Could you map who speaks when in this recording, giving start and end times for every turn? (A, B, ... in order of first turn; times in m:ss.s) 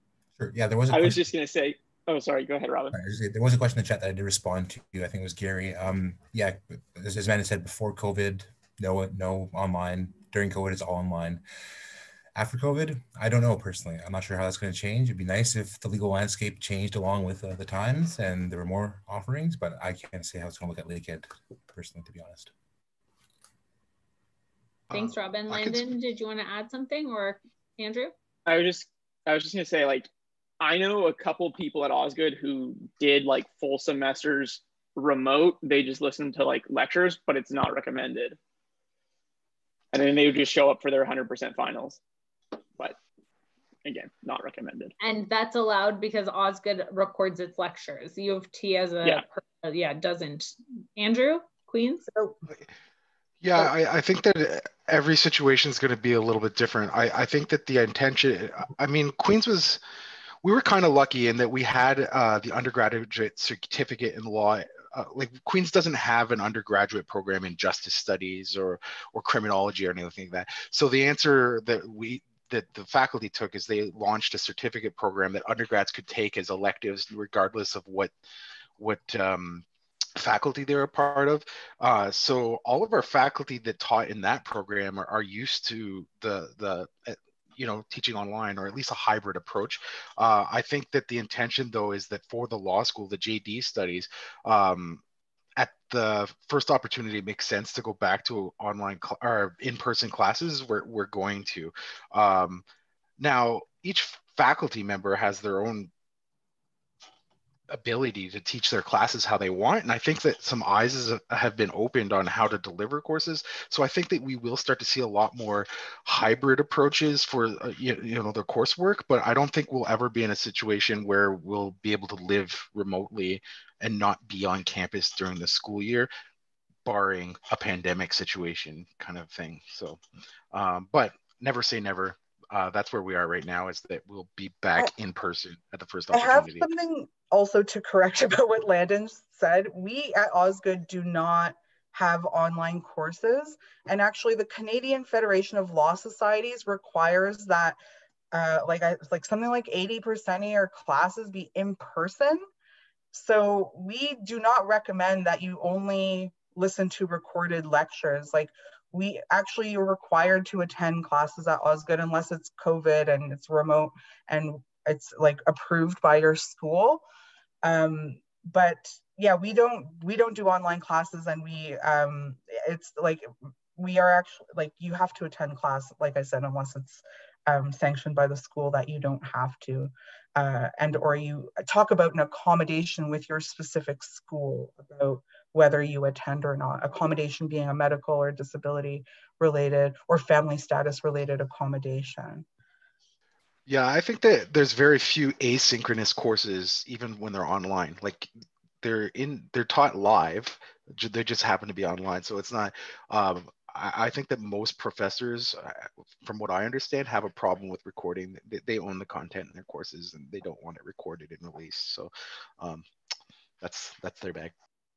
0:00.4-0:01.3 A
0:00.9-0:02.9 B
0:02.9-0:11.4 A
0:12.3-0:22.5 A
0:24.9-0:25.8 C
0:24.9-0:28.1 D
0:28.4-0:30.1 B
0:30.6-0:38.4 B
0:39.9-0:42.0 B
0:43.8-0:44.9 B
0:45.0-0:52.1 D
0:53.4-0:59.8 C
1:00.4-1:18.1 C
1:18.8-1:19.6 C
1:20.2-1:35.0 C
1:35.6-1:42.6 C
1:43.2-1:45.9 C
1:47.7-2:06.1 C
2:06.8-2:10.0 C
2:10.5-2:16.7 C
2:16.1-2:27.8 E
2:28.3-2:32.4 E
2:33.1-2:47.0 E
2:47.6-3:12.4 E
3:13.7-3:18.3 C
3:18.8-3:32.8 C
3:33.6-3:34.5 C